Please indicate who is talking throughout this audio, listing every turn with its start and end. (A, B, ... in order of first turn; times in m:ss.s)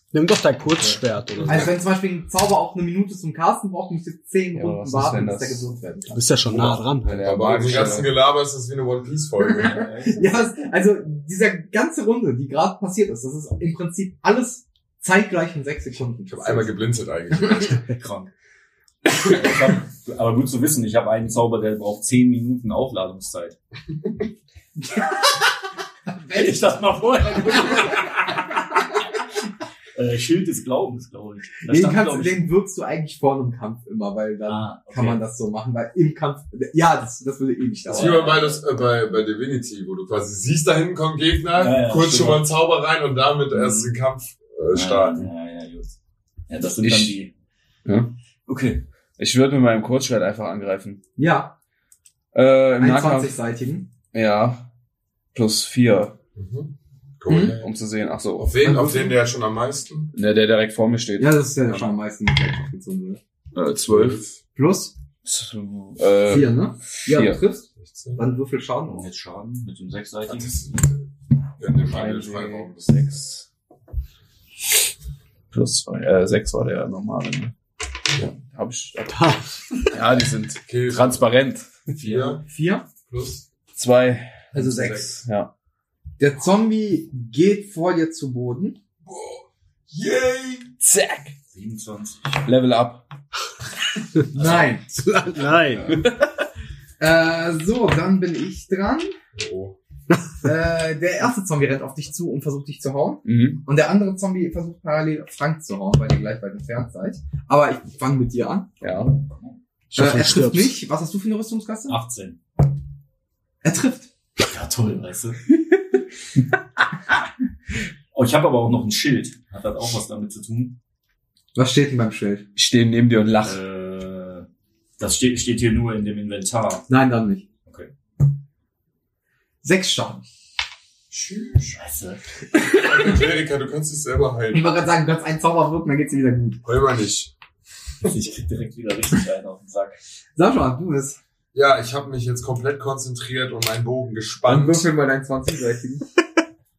0:00.1-0:01.7 A
0:01.4-0:06.3 B
0:04.5-0:05.7 C
0:06.1-0:07.2 A
0:06.5-0:08.2 C
0:07.0-0:09.8 D
0:09.5-0:10.2 E
0:10.0-0:16.7 B
0:16.3-0:17.8 D
0:17.8-0:18.3 E
0:19.1-0:23.6 E
0:26.2-0:28.3 E
0:29.9-0:32.4 E
0:31.7-0:38.2 B
0:34.4-0:35.2 E
0:37.8-0:38.6 E
0:37.9-0:45.3 D
0:41.5-0:42.5 E
0:43.5-0:43.9 E
0:44.7-0:46.0 E
0:46.5-0:47.3 E
0:46.8-0:47.1 C
0:47.8-0:48.1 C
0:48.4-0:48.8 E
0:49.2-0:51.0 C
0:51.2-0:51.5 B
0:52.3-0:53.3 C
0:52.8-0:53.9 B
0:54.1-0:54.7 C
0:55.3-0:56.2 C
0:56.4-0:57.7 D
0:57.3-0:57.6 B
0:57.6-0:58.7 C
0:58.4-1:00.1 D
0:58.6-0:59.1 B
1:00.1-1:01.8 C
1:01.2-1:03.2 B
1:03.5-1:04.2 C
1:03.9-1:04.4 D
1:04.5-1:04.9 B
1:05.2-1:07.4 C
1:06.3-1:09.0 B
1:07.8-1:08.2 D
1:08.9-1:10.6 E
1:10.3-1:11.0 D
1:11.6-1:12.9 D
1:11.8-1:13.4 C
1:15.5-1:17.5 C
1:18.3-1:22.3 C
1:19.1-1:19.4 A
1:20.6-1:21.2 D
1:22.0-1:22.4 D
1:22.4-1:22.9 B
1:23.0-1:23.4 D
1:23.7-1:25.5 C
1:24.5-1:25.2 B
1:26.2-1:28.8 B
1:29.0-1:30.8 D
1:30.8-1:31.3 C
1:31.5-1:32.5 E
1:32.4-1:33.0 C
1:34.3-1:35.8 E
1:34.3-1:34.8 B
1:35.0-1:36.0 A
1:37.0-1:39.1 B
1:39.4-1:39.8 D
1:40.4-1:48.7 B
1:43.2-1:43.6 C
1:48.8-1:49.1 C
1:49.1-1:49.6 E
1:49.9-1:50.8 A
1:49.9-1:52.0 B
1:51.9-1:52.4 E
1:53.6-1:54.1 B
1:54.4-1:55.4 E
1:58.1-2:00.8 E
2:01.5-2:02.5 B
2:02.5-2:03.6 C
2:03.4-2:04.5 E
2:05.0-2:06.9 E
2:06.9-2:07.4 B
2:07.6-2:07.9 E
2:09.6-2:10.2 B
2:11.1-2:11.7 D
2:11.6-2:12.2 E
2:12.7-2:14.7 D
2:14.5-2:16.6 B
2:16.6-2:17.3 D
2:18.0-2:20.0 E
2:20.4-2:21.2 B
2:21.5-2:24.9 D
2:24.4-2:26.0 B